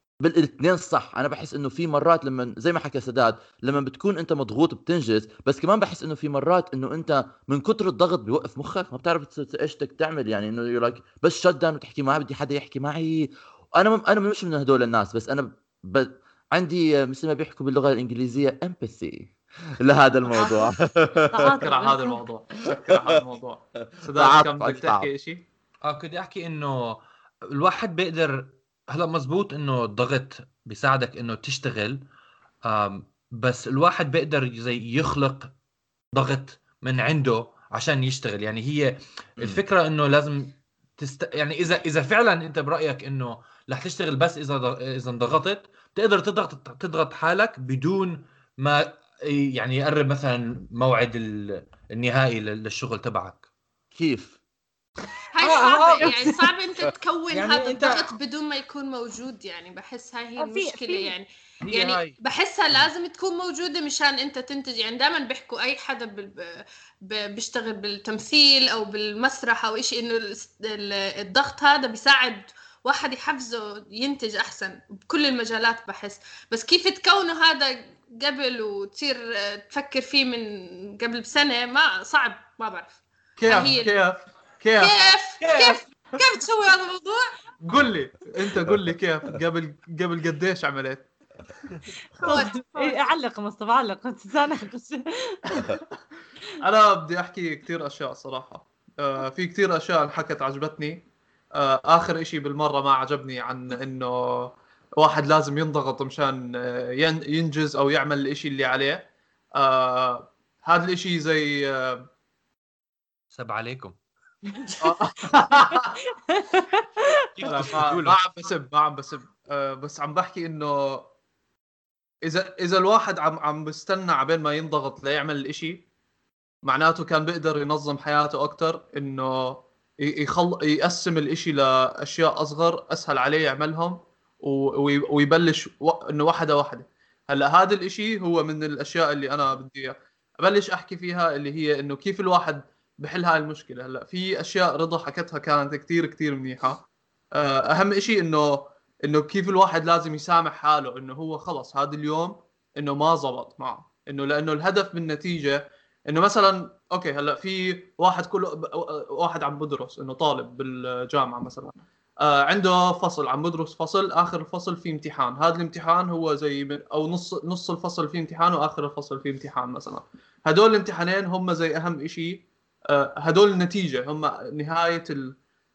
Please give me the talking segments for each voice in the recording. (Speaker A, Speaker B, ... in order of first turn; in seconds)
Speaker A: 0.2-21.6, 24.1-25.1, 53.9-54.4
Speaker B: 20.3-20.7, 21.3-22.2, 60.4-61.1, 92.2-95.6, 114.5-114.9, 116.3-117.7
Speaker C: 21.6-25.4, 83.4-85.0, 87.6-91.1, 95.5-95.8, 96.6-112.0, 114.8-115.9, 117.4-121.0, 122.2-125.8, 126.6-175.3
Speaker D: 25.8-27.0, 27.5-32.0, 32.6-35.5, 36.1-53.4, 55.4-56.4, 57.3-58.1, 61.6-62.2, 85.4-85.8, 113.3-113.9, 117.3-118.2
Speaker E: 55.3-84.0, 84.8-87.3, 92.2-93.1